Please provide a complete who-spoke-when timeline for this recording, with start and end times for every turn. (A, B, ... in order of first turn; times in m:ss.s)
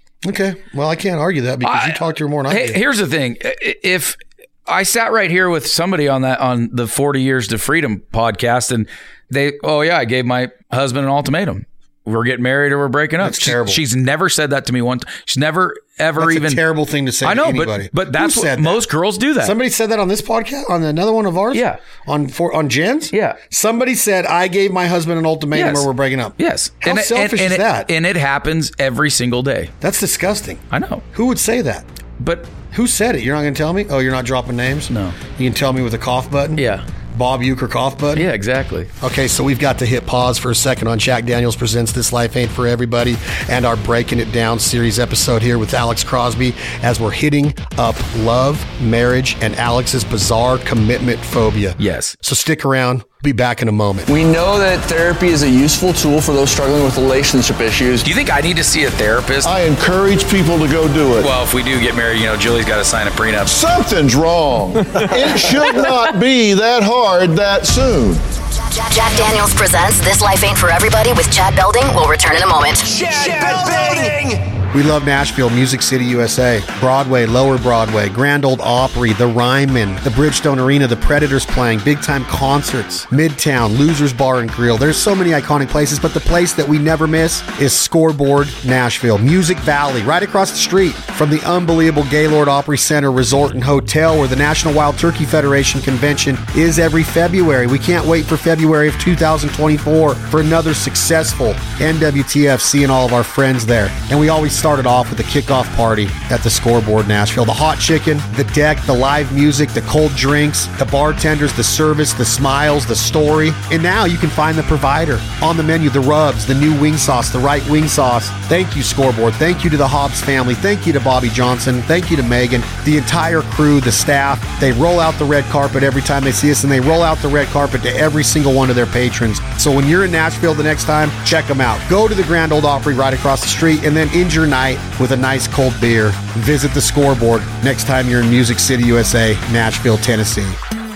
0:00.2-0:02.8 A
0:01.6-0:16.6 B
0:13.2-0:13.8 A
0:16.2-0:18.9 A
0:17.2-0:19.6 B
0:19.4-0:27.9 A
0:21.5-0:21.8 B
0:23.1-0:23.4 B
0:25.5-0:29.7 B
0:29.8-0:31.9 A
0:30.7-0:31.0 B
0:32.2-0:32.5 B
0:32.7-0:38.3 A
0:34.9-0:35.2 B
0:36.6-0:36.8 B
0:38.2-0:38.9 B
0:39.0-0:54.1 A
0:51.8-0:52.2 B
0:54.1-0:58.0 C
0:58.0-0:59.5 B
0:59.4-1:01.3 D
1:01.2-1:03.5 B
1:03.5-1:08.2 D
1:08.5-1:13.0 E
1:14.7-2:20.6 A